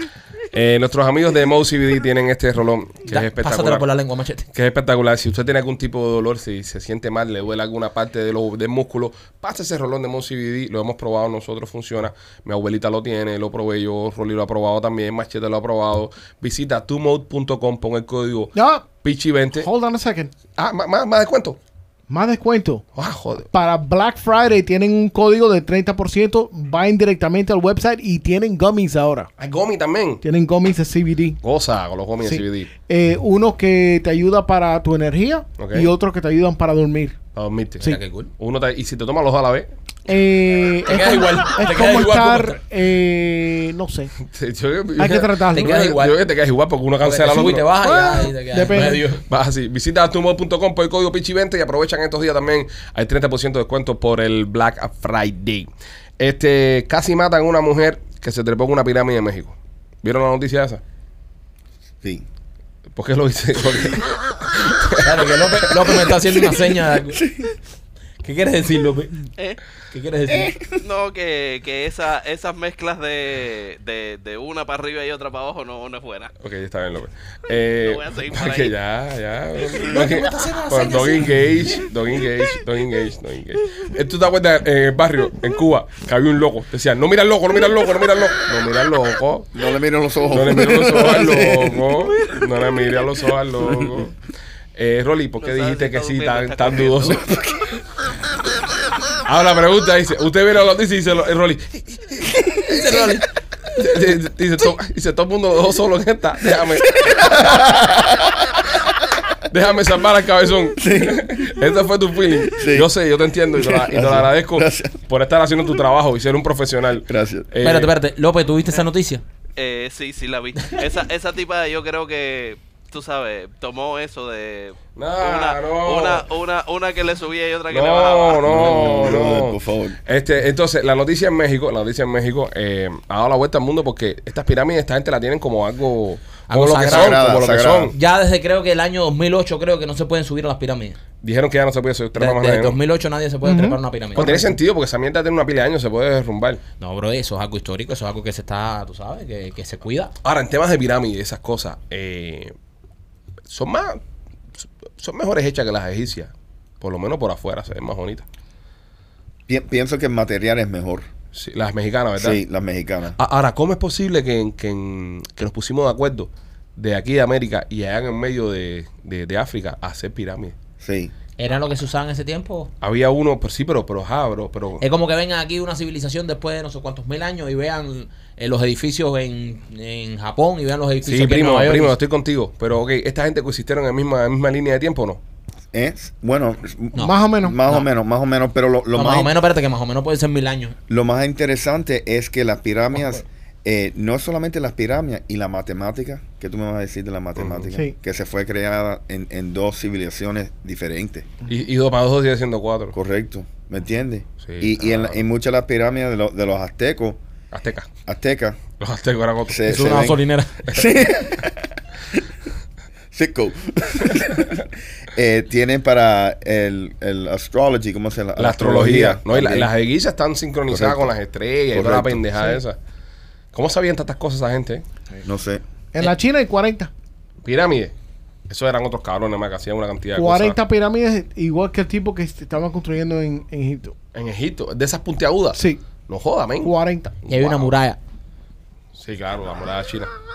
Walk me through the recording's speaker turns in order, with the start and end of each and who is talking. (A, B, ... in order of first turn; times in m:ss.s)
0:00.5-0:03.9 A
0:03.1-0:04.5 B
0:04.5-0:19.7 A
0:18.6-0:18.9 C
0:19.6-0:20.3 C
0:20.6-0:21.6 A
0:22.1-0:22.8 C
0:23.0-0:23.5 A
0:23.5-0:29.3 C
0:29.4-0:30.2 A
0:30.2-0:31.4 C
0:31.4-0:32.7 A
0:32.2-0:37.2 C
0:35.6-0:35.9 A
0:37.4-0:39.7 A
0:37.8-0:38.3 B
0:40.1-0:44.1 C
0:40.9-0:42.6 B
0:44.3-0:47.7 A
0:45.0-0:45.7 C
0:45.5-0:46.2 B
0:47.0-0:49.2 B
0:47.8-0:49.0 C
0:49.2-1:00.8 A
1:03.0-1:06.0 A
1:05.0-1:07.2 B
1:07.1-1:07.5 D
1:08.2-1:09.3 B
1:09.9-1:10.5 B
1:10.3-1:10.6 D
1:10.8-1:16.3 E
1:16.4-1:29.5 A
1:17.8-1:18.7 E
1:19.9-1:21.7 B
1:29.5-1:32.3 D
1:30.3-1:34.1 A
1:33.6-1:34.0 D
1:34.8-1:37.3 A
1:35.4-1:37.2 E
1:37.3-1:37.6 D
1:39.2-1:42.2 A
1:42.7-1:43.3 B
1:42.8-1:43.1 D
1:43.7-1:47.7 A
1:47.0-1:48.6 D
1:49.5-1:57.9 A
1:50.8-1:51.4 D
1:52.5-1:52.9 D
1:53.6-1:55.0 D
1:57.1-1:57.5 D
1:57.6-1:59.2 B
1:59.6-2:08.6 E
2:05.0-2:06.2 A
2:07.7-2:18.0 A
2:08.4-2:10.0 D
2:16.5-2:17.2 B
2:16.8-2:17.9 D
2:17.9-2:21.0 B
2:21.2-2:22.8 A
2:22.2-2:24.6 B
2:23.4-2:23.8 C
2:24.2-2:26.6 A
2:26.8-2:30.1 B
2:30.2-2:32.5 A
2:33.5-2:34.0 A
2:34.6-2:38.2 A
2:39.5-2:41.1 D
2:41.3-2:42.4 A
2:42.2-2:43.2 D
2:43.2-2:50.5 A
2:50.8-2:51.1 D
2:51.4-2:52.7 B
2:52.8-2:54.8 A
2:54.8-3:02.0 B
3:01.0-3:05.2 A
3:05.7-3:09.3 D
3:07.0-3:07.6 C
3:09.0-3:10.8 B
3:10.9-3:21.3 D
3:17.4-3:17.7 A
3:21.5-3:23.0 A
3:22.9-3:27.2 D
3:24.4-3:25.2 A
3:27.5-3:27.9 A
3:28.1-3:28.6 D
3:28.8-3:29.7 A
3:29.5-3:30.2 D
3:29.7-3:30.6 B
3:30.7-3:30.9 A
3:30.7-3:32.2 D
3:33.1-3:39.7 D
3:38.4-3:42.8 A
3:40.7-3:41.1 D
3:41.7-3:42.5 D
3:43.5-3:44.8 A
3:45.2-3:45.6 D
3:45.9-3:46.9 C
3:47.4-3:47.9 A
3:48.5-3:50.6 A
3:50.2-3:53.9 C
3:54.1-3:56.7 A
3:55.5-3:55.8 C
3:56.6-3:57.2 C
3:57.2-3:57.7 A
3:57.3-3:58.0 B
3:59.0-4:00.1 A